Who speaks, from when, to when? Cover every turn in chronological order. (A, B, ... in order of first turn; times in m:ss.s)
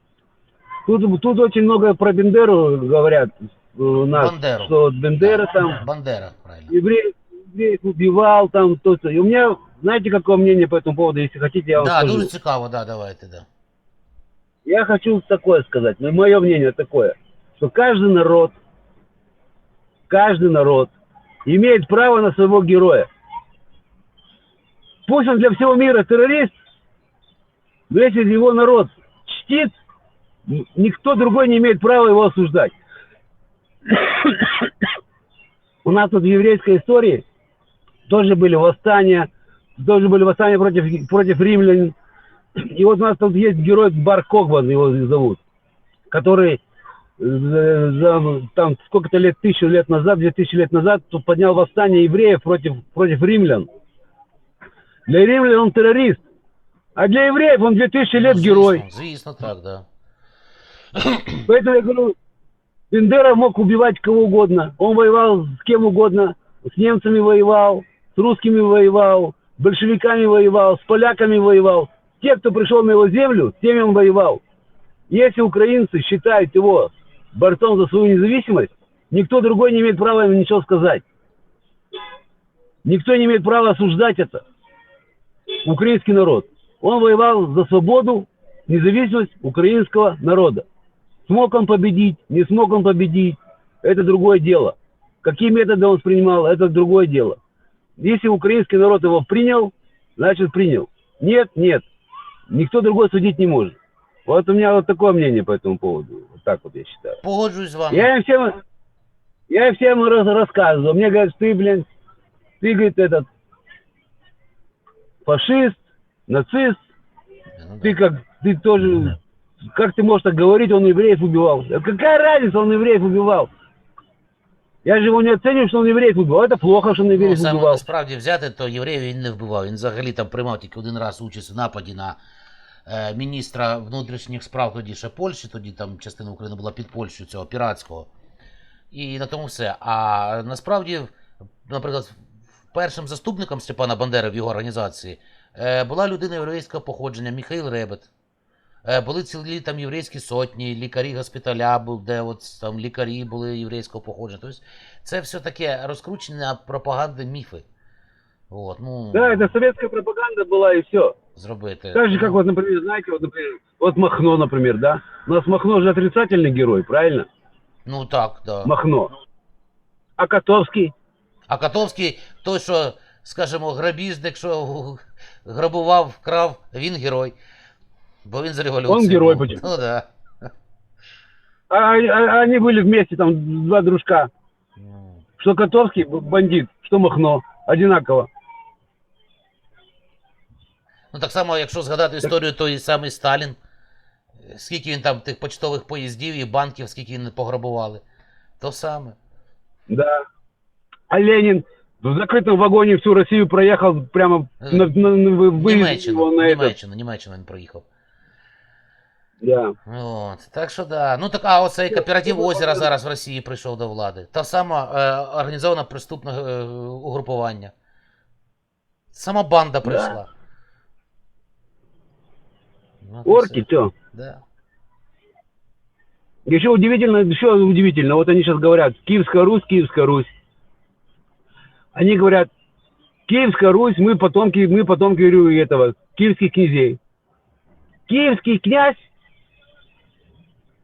0:00.8-0:05.8 A
0:04.1-0:06.7 B
0:06.7-0:12.3 A
0:11.7-0:13.5 B
0:14.6-0:18.5 A
0:20.1-0:20.9 A
0:21.4-0:23.1 A
0:25.0-0:26.5 A
0:27.9-0:29.7 A
0:30.5-0:32.7 A
0:35.8-0:37.2 A
0:38.1-0:41.9 A
0:42.6-0:45.4 A
0:46.1-0:46.6 A
0:47.2-0:53.7 A
0:55.1-0:56.2 A
0:57.0-0:58.8 A
0:58.1-0:59.8 B
1:00.9-1:01.4 B
1:01.4-1:02.1 A
1:02.9-1:14.4 A
1:15.1-1:21.0 A
1:22.8-1:24.4 A
1:25.6-1:30.6 A
1:31.3-1:37.4 A
1:38.0-1:41.9 A
1:42.5-1:47.2 A
1:47.2-1:48.1 B
1:47.9-1:48.6 A
1:49.5-1:51.8 A
1:52.6-1:53.3 A
1:55.2-1:56.8 A
1:57.6-1:58.0 B
1:57.8-1:59.2 A
1:59.7-2:03.5 A
2:04.8-2:07.8 A
2:07.1-2:12.2 B
2:12.8-2:18.1 B
2:18.9-2:21.1 B
2:21.6-2:22.2 B
2:22.7-2:28.1 B
2:28.8-2:37.6 B
2:38.5-2:39.5 B
2:39.1-2:41.1 A
2:41.4-2:42.4 B
2:41.9-2:47.3 A
2:47.8-2:48.7 B
2:48.6-2:49.1 A
2:50.2-2:50.9 A
2:51.5-2:57.3 B
2:58.2-3:00.5 B
2:58.9-2:59.6 A
3:01.7-3:04.3 A
3:04.8-3:05.2 B
3:05.4-3:08.3 A
3:11.1-3:13.6 B
3:14.4-3:18.0 B
3:18.6-3:19.2 B
3:19.9-3:20.2 A
3:21.1-3:26.7 A
3:24.6-3:24.9 B
3:25.5-3:27.8 B
3:29.4-3:29.7 A
3:29.9-3:37.7 B
3:31.9-3:32.9 A
3:39.1-3:40.3 B
3:39.8-3:40.1 A
3:43.0-3:44.4 B
3:43.2-3:43.9 A
3:46.4-3:50.3 A
3:51.9-3:52.5 A
3:53.3-3:57.0 A
3:58.1-3:59.0 A